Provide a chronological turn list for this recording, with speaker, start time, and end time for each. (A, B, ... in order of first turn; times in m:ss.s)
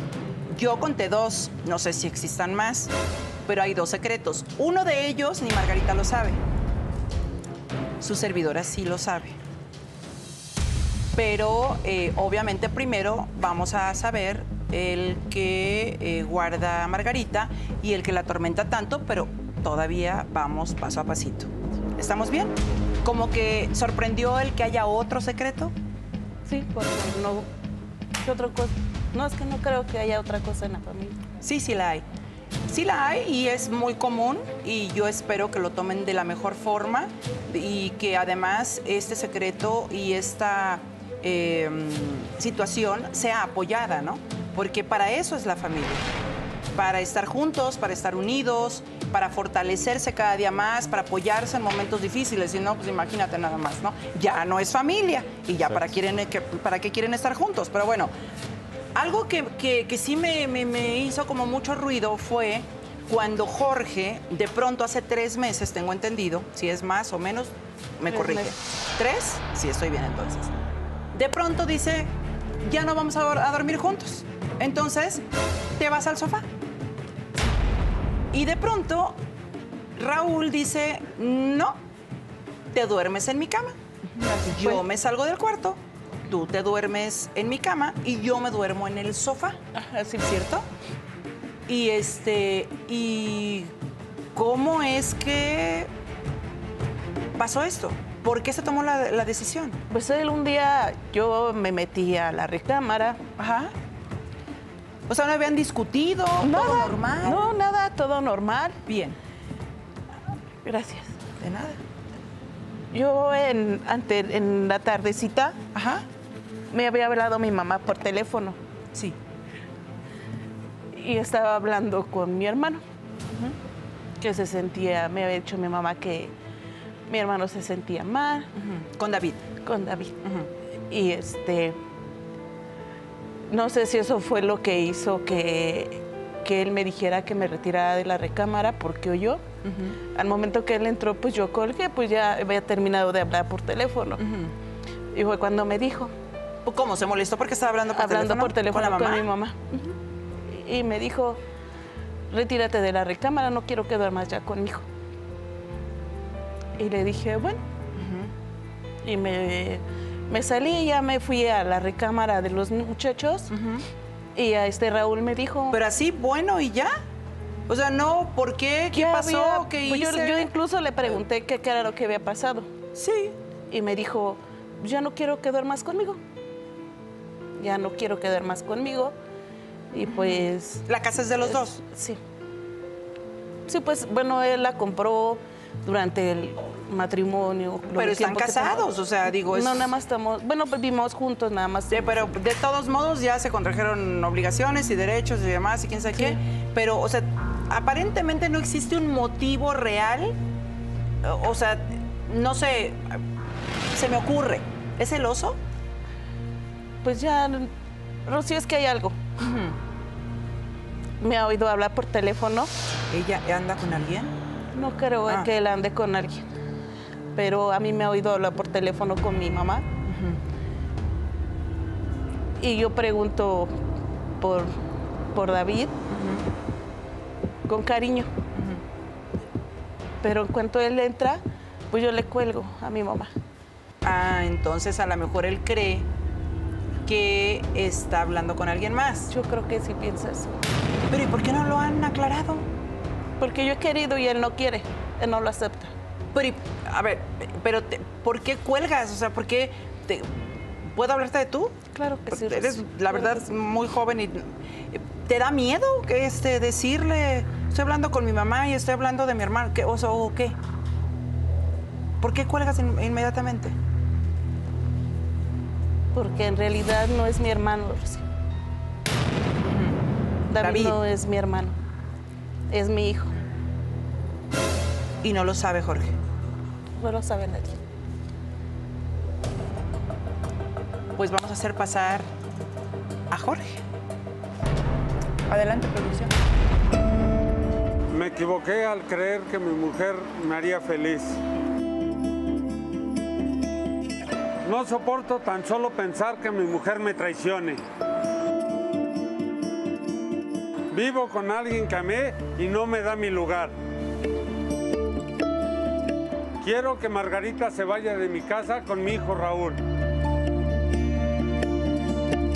0:00.5-0:02.9 A
0:03.4-0:06.4 A
0:08.0-0:09.4 A
0:11.1-0:25.7 A
0:26.4-0:27.5 B
0:28.2-0:31.2 B
0:31.4-0:32.0 A
0:32.7-0:46.1 A
0:46.7-0:58.1 A
0:58.9-1:10.5 A
1:08.1-1:08.5 B
1:11.1-1:12.1 A
1:12.6-1:15.2 A
1:15.8-1:16.5 A
1:18.3-1:19.2 A
1:20.0-1:21.8 A
1:22.7-1:23.7 A
1:24.1-1:24.8 B
1:24.4-1:29.6 A
1:29.7-1:30.6 B
1:31.7-1:33.7 A
1:34.3-1:35.9 A
1:37.4-1:39.8 A
1:39.9-1:43.2 B
1:43.4-1:43.7 A
1:45.1-1:47.5 A
1:46.4-1:48.8 B
1:48.8-1:49.2 A
1:50.6-1:51.1 B
1:51.4-1:51.8 A
1:52.9-1:55.6 B
1:55.7-1:56.0 A
1:56.7-1:58.6 B
2:00.9-2:02.8 B
2:04.2-2:06.3 B
2:07.1-2:08.5 B
2:08.6-2:09.4 A
2:09.6-2:10.1 B
2:10.2-2:10.5 A
2:10.9-2:11.8 B
2:13.5-2:19.4 B
2:19.6-2:20.0 A
2:20.1-2:24.2 B
2:24.2-2:24.5 A
2:25.1-2:26.1 B
2:26.6-2:29.3 A
2:27.9-2:29.9 B
2:30.4-2:31.4 B
2:32.3-2:34.8 B
2:36.8-2:37.6 B
2:37.9-2:38.3 A
2:39.0-2:43.5 B
2:43.5-2:43.8 A
2:44.4-2:45.8 B
2:45.7-2:46.9 A
2:47.7-2:50.5 A
2:48.9-2:52.7 B
2:52.9-2:53.3 A
2:53.7-2:56.2 B
2:57.6-2:59.1 B
2:59.9-3:00.8 B
3:00.0-3:01.8 A
3:01.4-3:02.2 B
3:03.7-3:12.3 B
3:07.9-3:09.9 A
3:11.9-3:20.3 A
3:21.2-3:23.2 A
3:23.9-3:25.6 A
3:27.0-3:27.7 B
3:28.2-3:29.2 B
3:29.4-3:29.7 A
3:31.2-3:32.7 B
3:33.1-3:34.4 A
3:34.7-3:36.4 B
3:35.2-3:35.5 A
3:37.3-3:39.9 B
3:40.1-3:40.4 A
3:42.6-3:43.7 B
3:44.4-3:44.7 B
3:45.3-3:45.9 B
3:46.1-3:46.4 A
3:47.7-3:48.3 B
3:48.5-3:48.8 A
3:50.2-3:53.3 B
3:54.0-3:56.1 A
3:57.0-3:59.3 A
3:59.3-4:00.6 B
4:01.1-4:02.7 A
4:03.4-4:05.9 B
4:06.3-4:20.6 A
4:11.9-4:13.4 B
4:22.2-4:23.7 A
4:26.1-4:28.2 B
4:29.6-4:30.0 A
4:30.5-4:31.8 B
4:30.6-4:31.0 A
4:32.7-4:33.3 B
4:35.2-4:36.2 A
4:37.0-4:37.8 B
4:41.2-4:42.3 A
4:43.3-4:43.8 A
4:45.5-4:46.3 A
4:48.1-4:51.4 C
4:54.6-4:57.8 C
5:00.9-5:03.8 C
5:06.6-5:09.8 C